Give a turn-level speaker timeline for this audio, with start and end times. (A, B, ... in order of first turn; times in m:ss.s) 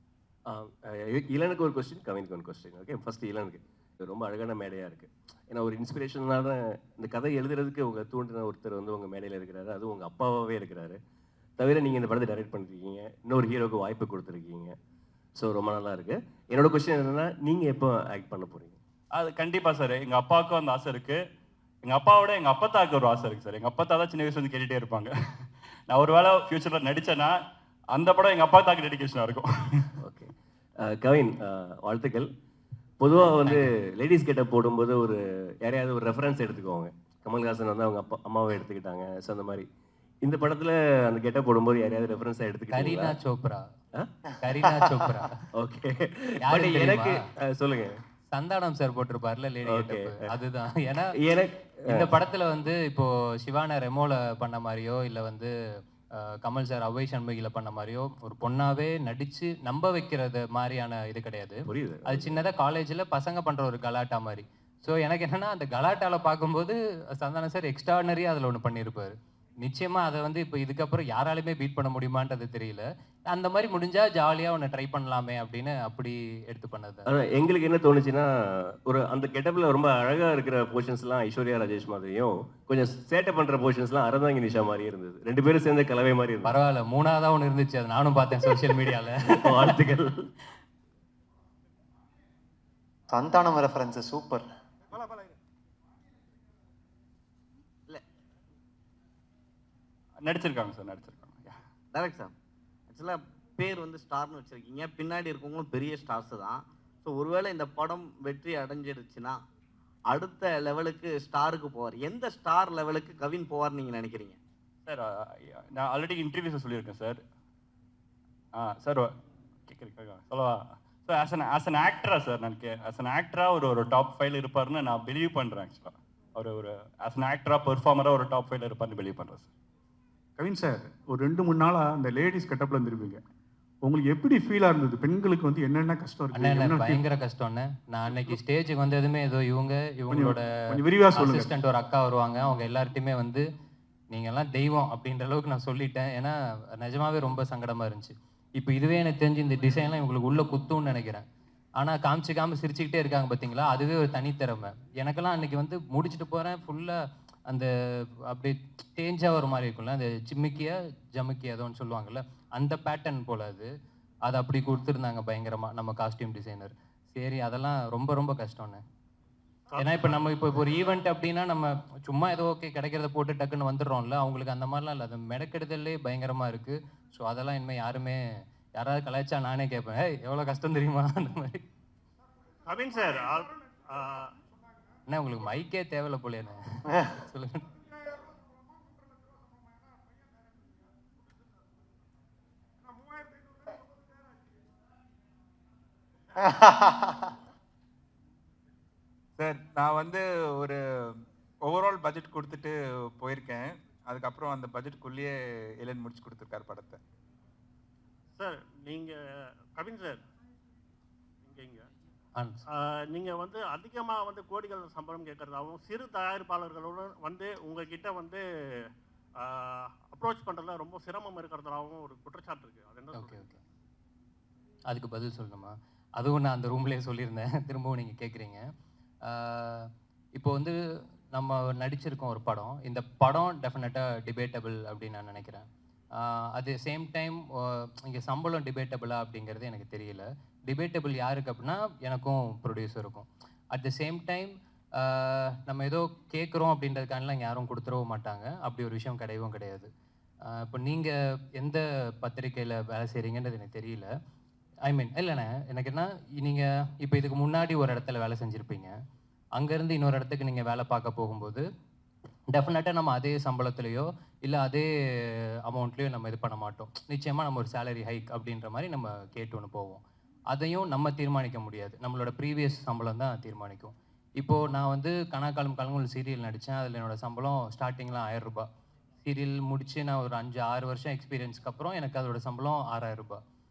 0:00.5-0:11.0 A
0:11.6-0:14.8 A
0:15.4-0:18.8 A
0:19.2-0:21.2 B
0:21.8-0:25.1 B
0:25.9-0:27.4 B
0:28.0-0:29.9 B
0:30.0-0:32.3 A
0:33.0-0:39.7 A
0:33.2-0:33.7 C
0:40.2-0:43.2 A
0:42.7-0:43.7 C
0:44.0-0:45.0 A
0:44.4-0:45.4 C
0:45.6-0:48.0 A
0:46.4-0:47.2 C
0:48.3-0:51.2 C
0:49.6-0:50.2 A
0:51.2-0:52.1 A
0:51.9-0:55.5 C
0:56.2-1:17.1 C
1:01.7-1:02.5 A
1:17.1-1:26.5 A
1:26.4-1:29.8 C
1:29.3-1:30.3 A
1:33.1-1:34.4 D
1:40.2-1:41.6 B
1:41.9-1:42.3 E
1:42.9-1:49.4 E
1:50.1-1:54.4 E
1:54.9-1:57.2 B
1:58.6-1:59.1 B
1:59.7-2:09.5 B
2:10.4-2:13.2 F
2:13.8-2:17.0 F
2:16.3-2:20.5 C
2:20.1-2:21.5 F
2:21.1-2:23.5 C
2:24.1-2:31.3 C
2:31.8-2:37.7 C
2:38.3-2:43.7 C
2:44.3-2:48.8 C
2:49.7-2:50.2 G
2:49.8-2:58.2 C
2:58.8-3:01.6 C
3:02.7-3:04.3 G
3:05.1-3:07.6 C
3:16.4-3:17.3 D
3:19.4-3:27.0 H
3:28.4-3:29.2 G
3:29.8-3:30.2 G
3:31.4-3:31.9 G
3:32.4-3:32.6 C
3:32.8-3:38.4 G
3:39.4-3:43.6 G
3:43.1-3:43.6 C
3:44.9-3:48.6 C
3:49.2-3:50.8 C
3:51.3-3:55.7 C
3:56.2-4:09.9 C
4:10.5-4:14.1 C
4:14.9-4:18.9 C
4:19.6-4:21.6 C
4:22.5-4:38.7 C
4:39.2-4:43.4 C